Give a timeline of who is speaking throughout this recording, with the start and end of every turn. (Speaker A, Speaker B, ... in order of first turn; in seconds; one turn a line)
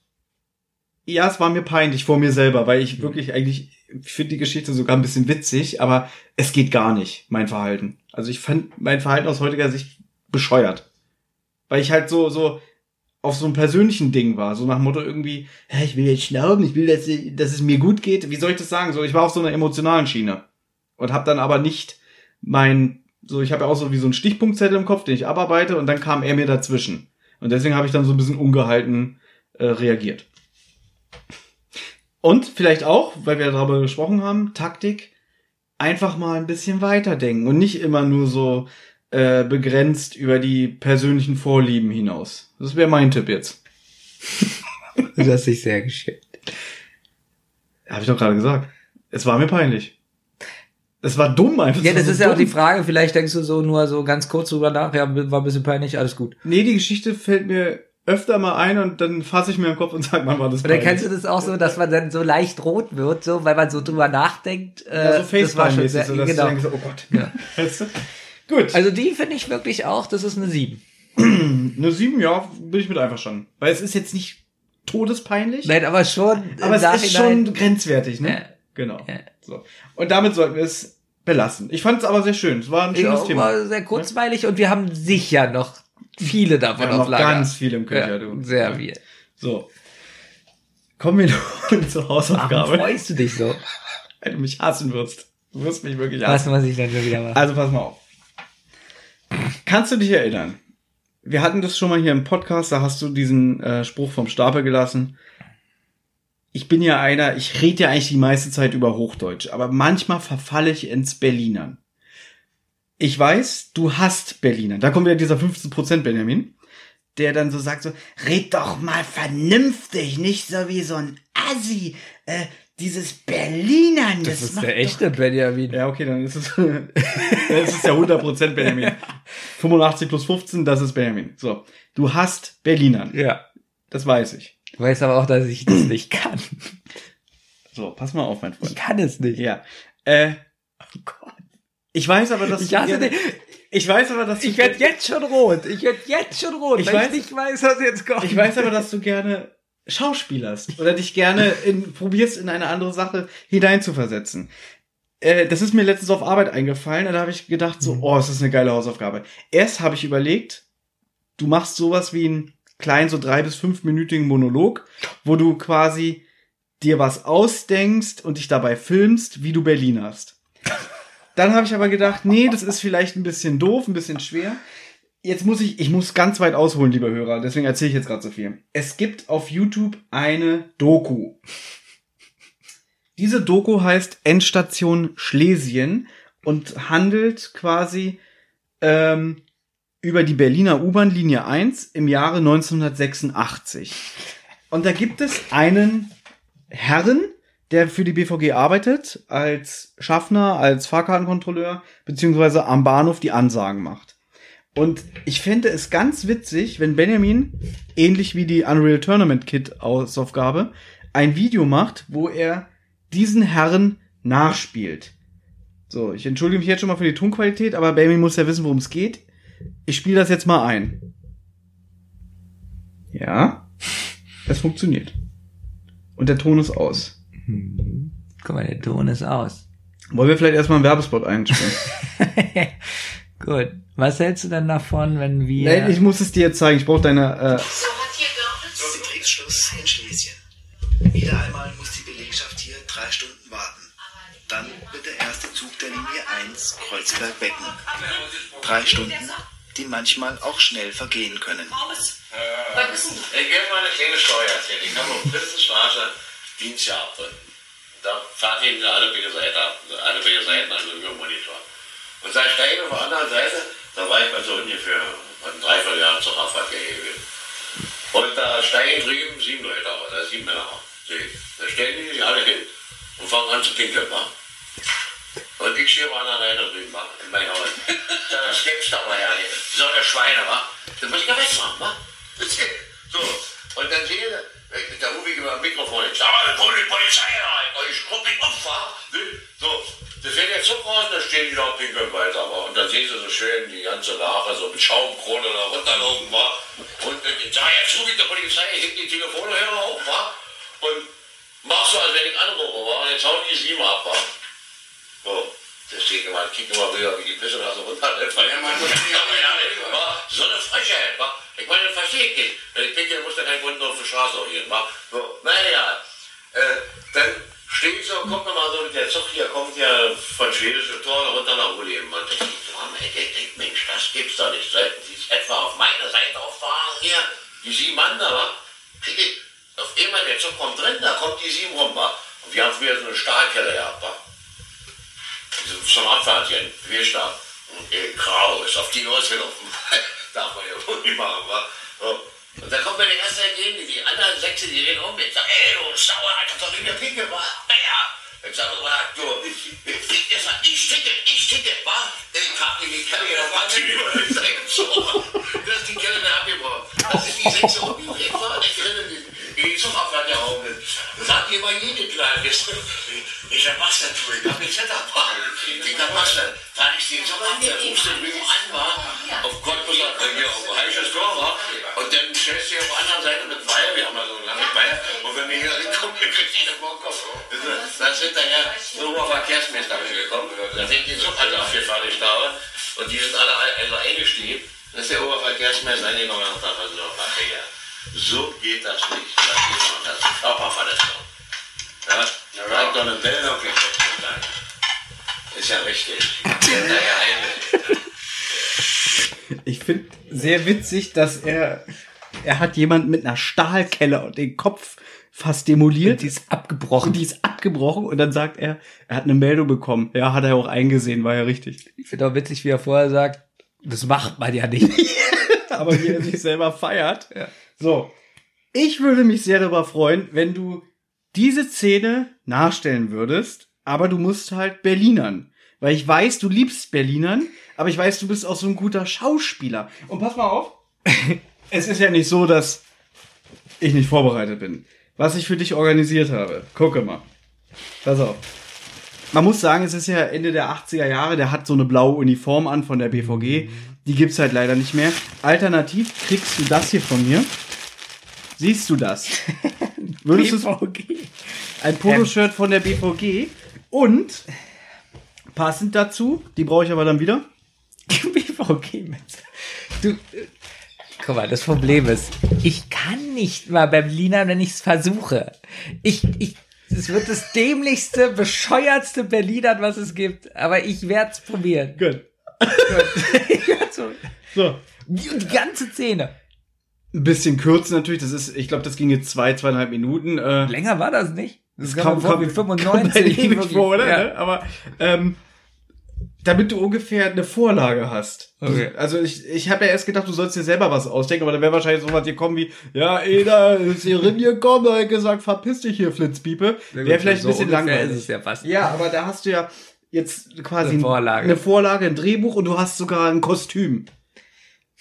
Speaker A: 1.1-10.8
Speaker A: 11.7-12.6
Speaker A: 13.2-20.4
Speaker A: 21.0-30.2
Speaker A: 32.2-35.1
Speaker A: 35.8-43.6
Speaker B: 45.1-46.4
Speaker A: 47.9-49.9
Speaker A: 51.0-52.5
Speaker B: 51.8-56.3
Speaker A: 56.4-61.1
Speaker B: 60.6-66.6
Speaker A: 64.9-67.9
Speaker B: 67.1-67.3
Speaker A: 68.5-68.8
Speaker B: 68.7-70.8
Speaker A: 71.2-75.7
Speaker B: 75.6-77.5
Speaker A: 76.5-84.1
Speaker B: 78.2-78.5
Speaker B: 82.9-89.0
Speaker A: 86.8-88.8
Speaker A: 89.4-89.7
Speaker A: 91.0-92.9
Speaker B: 92.3-93.6
Speaker A: 94.2-96.5
Speaker B: 96.2-97.4
Speaker A: 97.3-98.0
Speaker A: 99.6-100.6
Speaker A: 101.2-105.1
Speaker A: 106.5-111.8
Speaker A: 113.0-116.5
Speaker A: 117.1-125.0
Speaker B: 124.2-125.8
Speaker A: 125.7-129.0
Speaker B: 127.0-128.9
Speaker A: 129.6-133.1
Speaker B: 133.1-133.4
Speaker A: 133.9-134.5
Speaker B: 134.8-136.8
Speaker A: 137.7-138.8
Speaker B: 138.6-139.4
Speaker A: 139.3-140.4
Speaker B: 140.9-141.4
Speaker A: 141.9-143.1
Speaker B: 142.5-143.4
Speaker A: 143.7-144.9
Speaker B: 144.4-148.7
Speaker A: 146.8-147.2
Speaker A: 148.2-154.5
Speaker A: 155.2-160.6
Speaker A: 161.4-166.2
Speaker A: 166.8-170.3
Speaker A: 171.3-174.6
Speaker A: 175.2-181.4
Speaker A: 183.2-188.2
Speaker A: 188.8-189.4
Speaker A: 190.0-194.0
Speaker A: 194.7-196.1
Speaker A: 196.7-204.1
Speaker A: 204.7-215.1
Speaker A: 215.9-219.2
Speaker A: 219.8-221.0
Speaker A: 223.1-223.6
Speaker A: 224.4-225.1
Speaker A: 226.2-227.1
Speaker B: 227.4-229.6
Speaker A: 230.1-231.8
Speaker B: 231.5-236.0
Speaker A: 235.6-237.9
Speaker C: 238.3-240.4
Speaker C: 241.1-243.9
Speaker C: 244.5-247.8
Speaker C: 248.6-251.8
Speaker D: 252.4-257.3
Speaker D: 258.0-261.6
Speaker D: 262.2-267.2
Speaker D: 268.1-272.7
Speaker D: 273.2-274.3
Speaker D: 275.6-301.1
Speaker D: 301.6-304.2
Speaker D: 305.2-316.0
Speaker D: 316.5-334.2
Speaker D: 335.6-391.2
Speaker D: 392.0-394.5
Speaker D: 395.5-397.8
Speaker A: 399.5-401.8
Speaker A: 402.4-406.3
Speaker B: 406.0-407.2
Speaker A: 407.0-411.8
Speaker B: 412.0-415.6
Speaker A: 415.6-418.1
Speaker A: 418.7-430.8
Speaker A: 431.7-432.8
Speaker A: 433.8-437.2
Speaker A: 438.0-438.4
Speaker A: 439.3-447.5
Speaker B: 443.3-443.9
Speaker A: 448.6-449.4
Speaker B: 449.6-452.3
Speaker A: 450.2-450.7
Speaker A: 451.8-454.5
Speaker A: 455.5-457.5
Speaker B: 458.1-459.4
Speaker B: 460.0-460.5
Speaker B: 461.2-472.0
Speaker A: 472.0-473.5
Speaker B: 472.7-474.2
Speaker A: 474.5-474.8
Speaker B: 475.1-476.3
Speaker A: 477.1-480.7
Speaker B: 480.6-484.3
Speaker A: 481.8-485.4
Speaker A: 486.4-504.1
Speaker B: 488.6-488.9
Speaker B: 496.9-498.7
Speaker B: 500.8-501.6